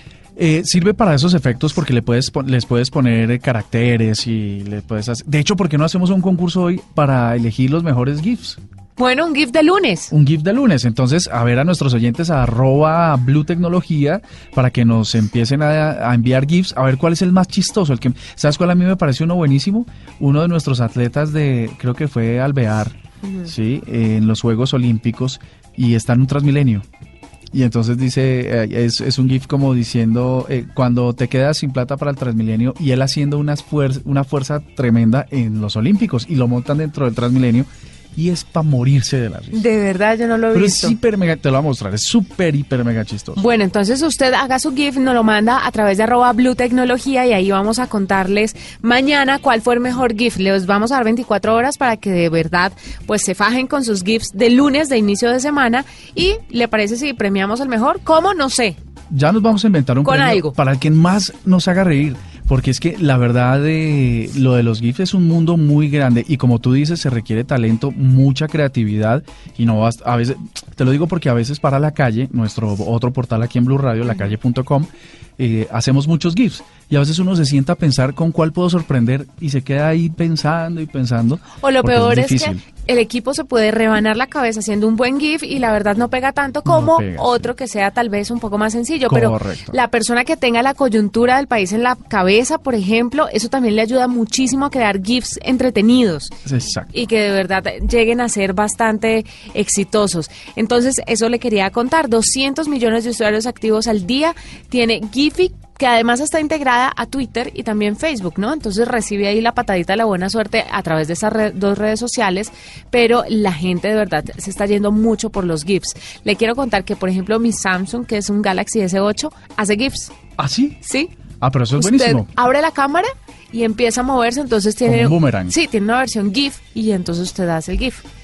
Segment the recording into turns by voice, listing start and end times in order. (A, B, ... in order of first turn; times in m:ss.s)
0:00.4-0:08.6 A
0:09.0-0:10.1 B
0:10.1-0:26.8 A
0:23.2-0:23.5 B
0:27.5-0:39.6 A
0:39.5-0:41.0 B
0:40.5-0:43.4 A
0:43.4-0:58.8 B
0:59.1-1:22.6 A
1:00.0-1:00.6 B
1:21.6-1:36.4 B
1:26.6-1:27.5 A
1:29.1-1:29.8 A
1:36.5-1:37.0 A
1:36.9-2:00.2 B
2:00.4-2:00.8 A
2:00.8-2:01.1 B
2:01.4-2:02.3 A
2:01.8-2:08.0 B
2:04.8-2:05.6 A